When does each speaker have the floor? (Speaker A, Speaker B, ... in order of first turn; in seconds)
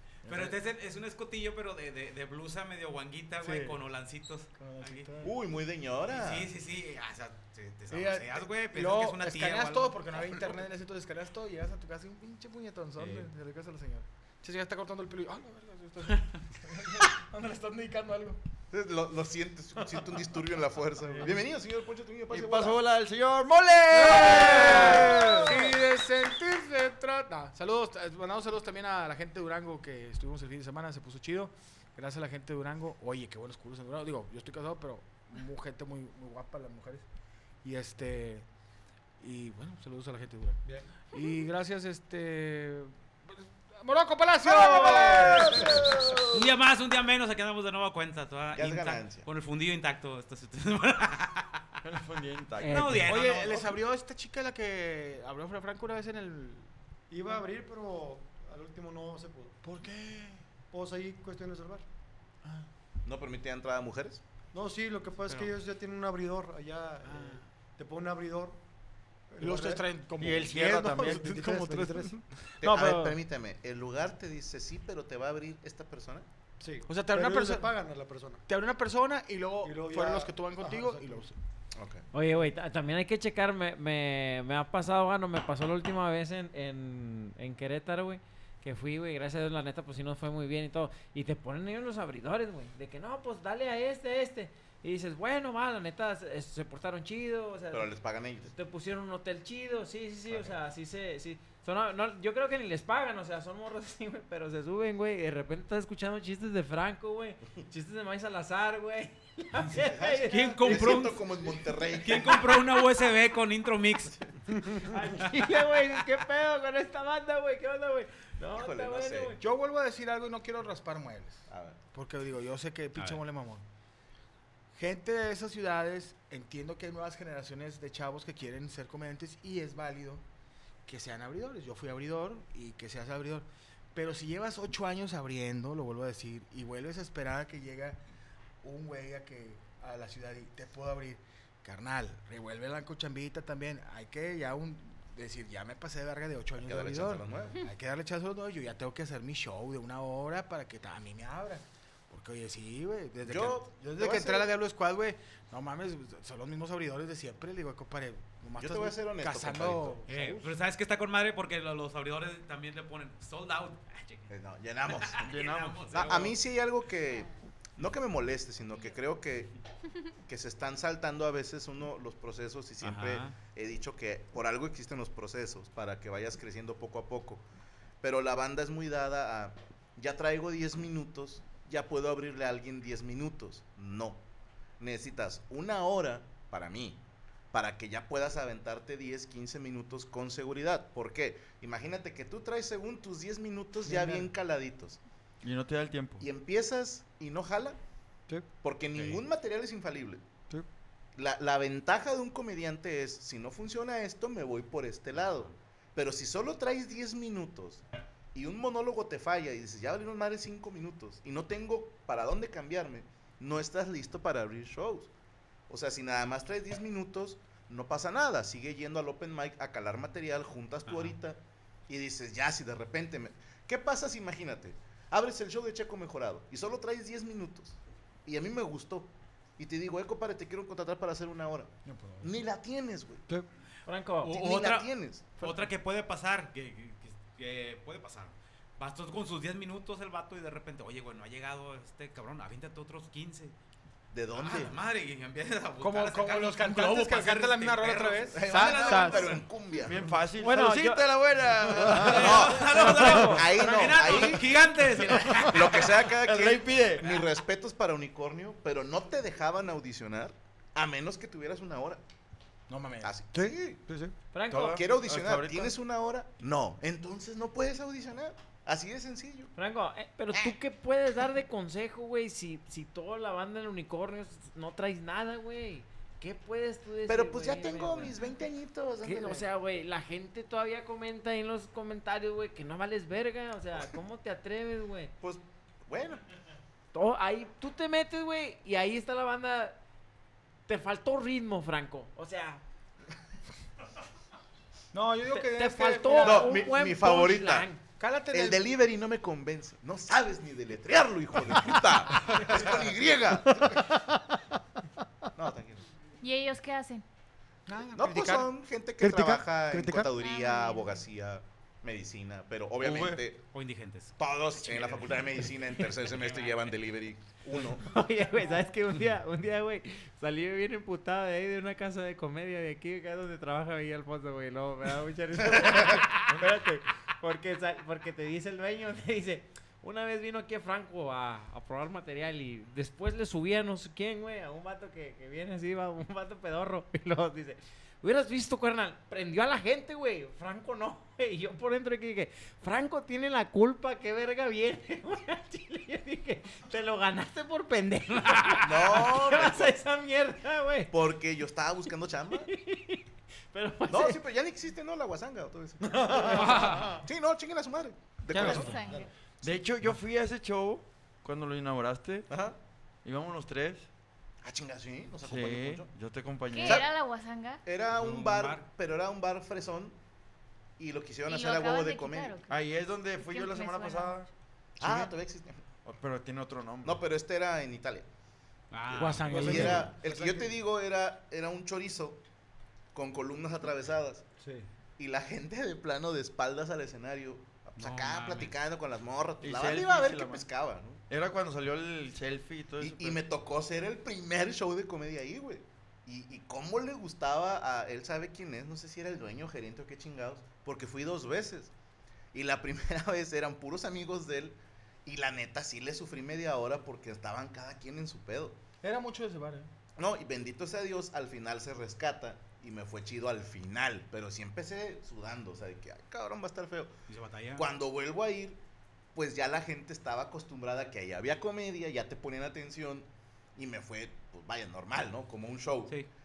Speaker A: 0.2-0.6, 3.4-3.8, 4.6-5.3, 7.9-18.4, 21.0-21.4, 23.9-37.1, 37.6-38.5, 39.2-46.0, 53.0-56.7, 59.6-60.4, 67.0-67.4, 69.4-73.1, 76.9-77.7, 78.5-81.4, 119.4-123.6, 124.7-130.2, 130.9-138.0, 138.6-160.5, 231.8-232.3, 245.8-249.4, 253.6-254.3, 262.7-263.1, 294.9-296.6, 298.0-298.6, 307.7-308.5, 358.3-358.7, 378.9-379.9, 408.8-409.7
Speaker B: 0.2-5.1, 6.1-10.5, 13.0-13.3, 46.3-51.6, 52.6-53.6, 110.3-111.3, 112.0-114.2, 160.1-164.3, 164.9-166.4, 172.8-173.4, 198.9-199.2, 205.1-205.5, 220.9-221.2, 234.2-243.5, 244.3-249.4, 251.9-255.9, 313.5-316.8, 348.3-348.5, 356.3-357.0, 367.9-368.7, 378.7-379.7, 387.8-388.5, 417.1-417.7
Speaker C: 5.2-6.5, 18.7-22.8, 24.7-25.2, 44.4-46.5, 48.5-49.3, 63.0-64.2, 72.6-76.3, 81.8-82.0, 97.7-98.5, 100.3-100.6, 109.8-112.6, 118.5-119.3, 121.5-121.8, 146.6-147.6, 153.2-154.5, 158.6-160.0, 164.3-165.3, 165.9-169.6, 170.3-177.5, 178.0-184.2, 184.8-187.0, 187.5-195.0, 196.2-197.8, 198.6-200.2, 201.2-207.8, 208.3-215.1, 215.7-233.2, 234.2-235.3, 244.1-244.8, 248.3-250.1, 252.1-254.5, 255.4-262.0, 263.0-263.8, 264.6-269.5, 277.1-279.5, 285.2-286.2, 296.2-297.7, 298.3-303.8, 305.4-305.9, 307.9-313.4, 314.2-317.9, 325.5-326.1, 348.6-349.8, 350.9-352.5, 353.9-358.8, 362.3-362.6, 364.4-365.9, 366.6-366.9, 367.6-370.0, 370.8-372.4, 374.8-375.6, 376.8-378.1, 379.3-382.2, 382.9-384.3, 385.0-391.0, 392.8-401.7, 402.3-408.6, 410.0-416.9, 417.6-418.6, 419.1-426.0
Speaker D: 22.3-25.7, 51.8-53.1, 70.2-71.4, 165.2-166.2, 195.4-196.3, 249.8-252.5, 256.1-257.2, 264.5-265.8, 312.8-313.2, 359.4-362.3, 363.0-363.9, 365.2-366.9, 372.5-375.1, 375.9-377.0, 389.4-390.5, 391.1-393.2
Speaker E: 44.7-45.9, 57.1-59.6, 60.7-61.9, 64.5-68.6, 69.3-69.8, 70.5-72.2, 76.6-78.4, 79.6-81.3, 193.9-194.2, 251.8-252.2, 263.3-264.1, 303.6-304.2, 309.0-310.1, 355.8-357.1, 358.7-359.1, 379.3-380.5
Speaker F: 52.6-53.0, 82.1-97.9, 98.5-111.0, 114.8-119.4, 233.9-234.4, 250.4-251.1, 252.7-253.5, 264.3-264.9, 269.6-278.1, 279.0-285.1, 286.9-289.8, 290.7-292.6, 295.3-297.8, 317.8-350.9, 352.3-354.2
Speaker G: 306.2-307.1, 310.1-311.0, 358.3-359.1, 366.5-367.6, 371.3-372.6, 373.1-374.2